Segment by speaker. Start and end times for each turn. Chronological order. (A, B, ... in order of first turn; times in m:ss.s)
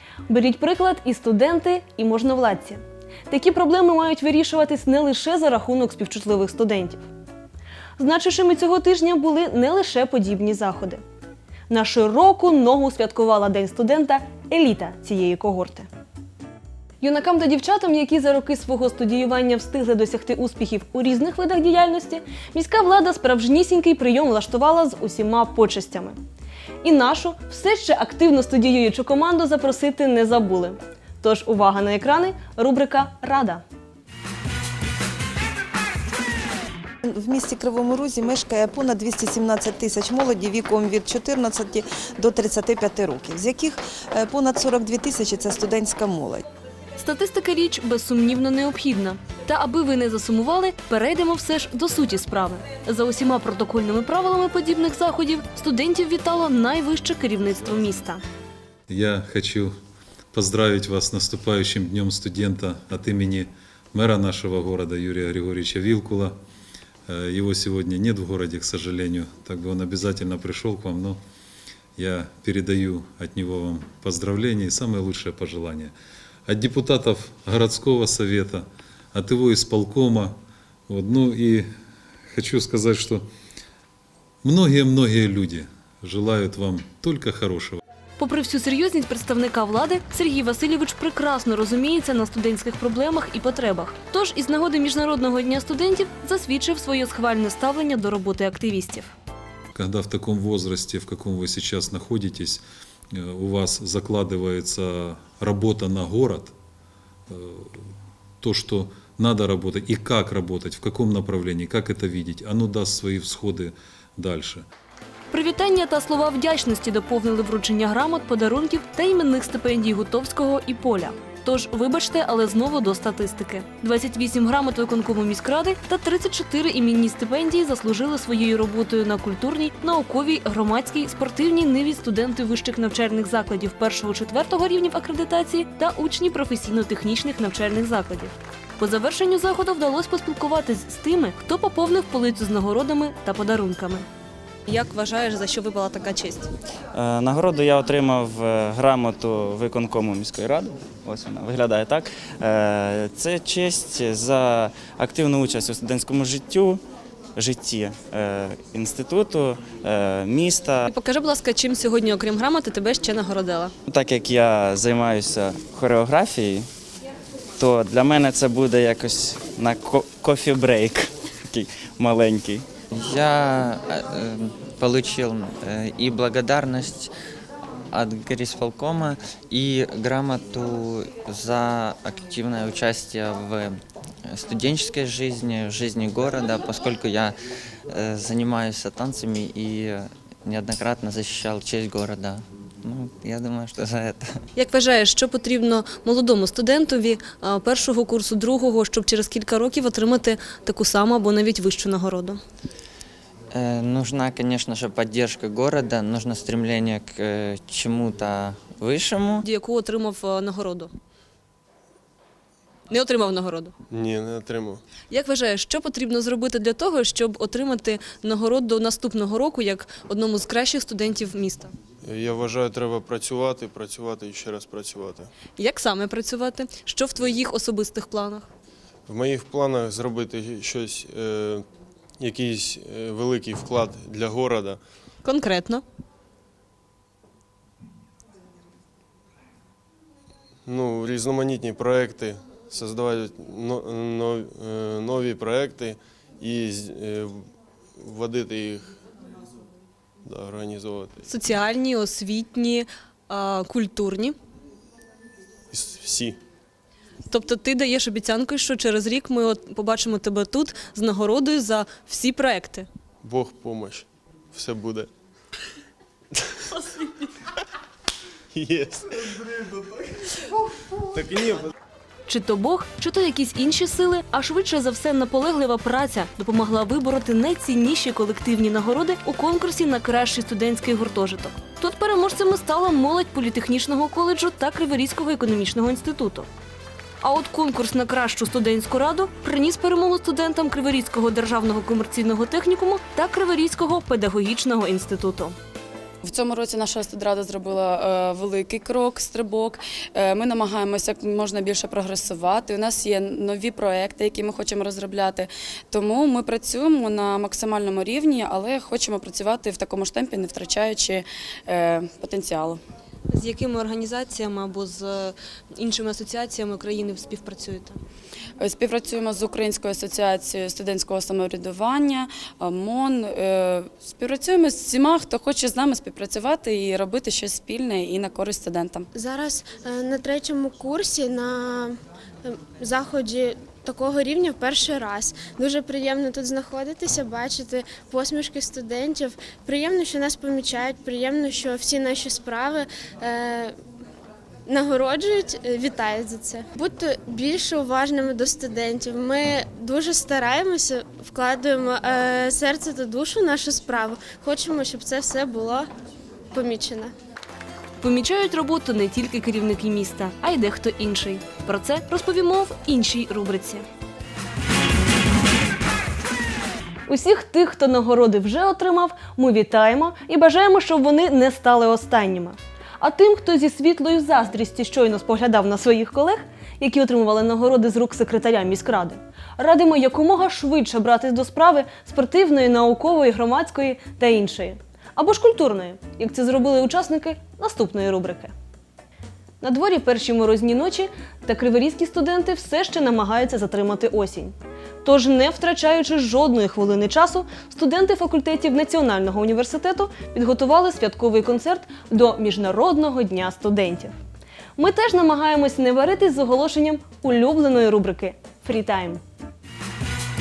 0:00.3-0:07.0 A
0:08.0-0:11.0 A
0:11.7-0:15.9 A
0:17.0-0:26.2 A
0:26.8-0:33.6 A
0:37.0-0:46.4 B
0:47.0-0:58.2 A
0:58.9-0:59.8 C
1:00.3-1:06.4 C
1:07.1-1:11.2 C
1:12.0-1:15.9 C
1:16.5-1:20.4 C
1:20.9-1:21.7 C
1:22.3-1:23.3 C
1:24.4-1:27.8 C
1:28.2-1:39.1 A
1:39.8-1:46.5 C
1:47.3-1:47.9 C
1:48.4-1:54.6 C
1:55.3-2:24.0 A
2:24.7-2:26.5 A
2:26.9-2:36.8 D
2:37.4-2:40.8 D
2:40.9-2:43.7 A
2:43.9-2:46.7 D
2:47.6-2:52.6 D
2:52.9-2:57.1 E
2:57.9-3:07.4 E
3:07.9-3:14.2 E
3:14.6-3:22.4 A
3:23.5-3:29.4 E
3:29.4-3:30.9 A
3:32.9-3:33.7 A
3:33.9-3:34.8 F
3:35.1-3:41.7 A
3:42.0-3:45.3 F
3:45.6-3:48.5 A
3:49.1-3:51.6 F
3:52.2-3:54.8 F
3:55.2-3:55.8 A
4:00.6-4:09.0 F
4:10.2-4:11.2 F
4:11.2-4:14.4 A
4:15.7-4:16.4 F
4:17.3-4:22.9 A
4:23.2-4:25.1 F
4:28.5-4:29.2 F
4:31.1-4:31.7 F
4:32.3-4:46.5 A
4:47.2-4:55.6 A
4:56.2-5:12.8 G
5:13.3-5:18.0 A
5:18.6-5:29.1 G
5:29.1-5:43.8 H
5:44.7-5:55.9 H
5:56.5-5:57.1 H
5:58.0-6:03.8 A
6:07.1-6:28.5 A
6:29.6-6:44.2 A
6:44.8-6:49.2 A